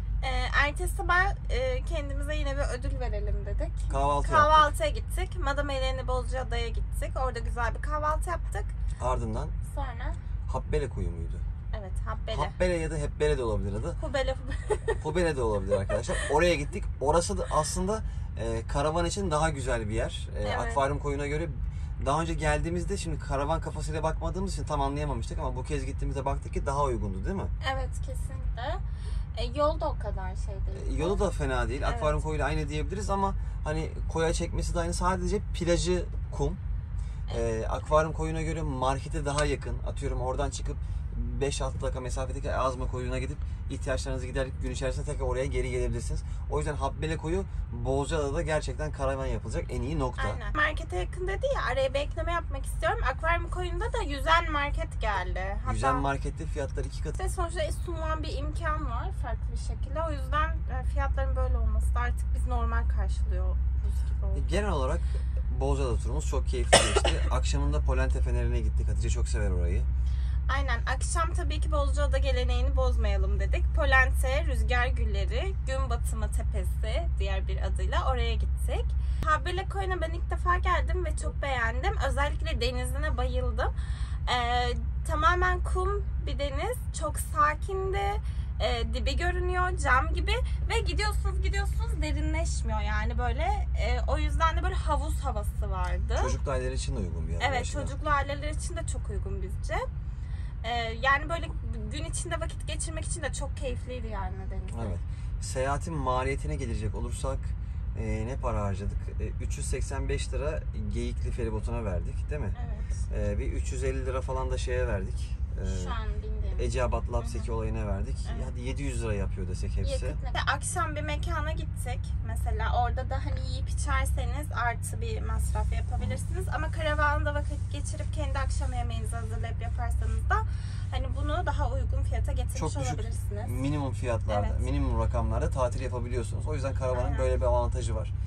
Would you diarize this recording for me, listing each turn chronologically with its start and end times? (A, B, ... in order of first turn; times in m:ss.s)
0:00.2-0:08.7 A
0:03.9-0:04.7 B
0:09.0-0:09.5 B
0:09.6-0:10.2 A
0:10.5-0:11.4 B
0:11.7-0:12.5 A
0:12.3-0:14.0 B
0:14.0-0:15.0 A
0:15.0-0:27.5 B
0:20.4-0:20.8 A
0:27.6-0:28.8 A
0:29.3-0:31.2 A
0:30.7-0:36.6 B
0:31.8-0:32.2 A
0:37.3-0:50.4 B
0:50.2-0:56.1 A
0:55.6-0:57.2 B
0:57.2-1:04.6 A
1:04.3-1:09.9 B
1:10.5-1:23.7 A
1:24.2-1:36.4 A
1:36.2-1:37.9 B
1:37.4-1:39.9 A
1:40.6-1:44.9 A
1:44.7-1:52.6 B
1:52.6-1:53.0 A
1:53.1-1:56.0 B
1:55.6-1:57.5 A
1:56.6-2:00.2 B
1:59.8-2:13.6 A
2:12.5-2:18.1 B
2:14.3-2:14.6 A
2:16.9-2:17.3 A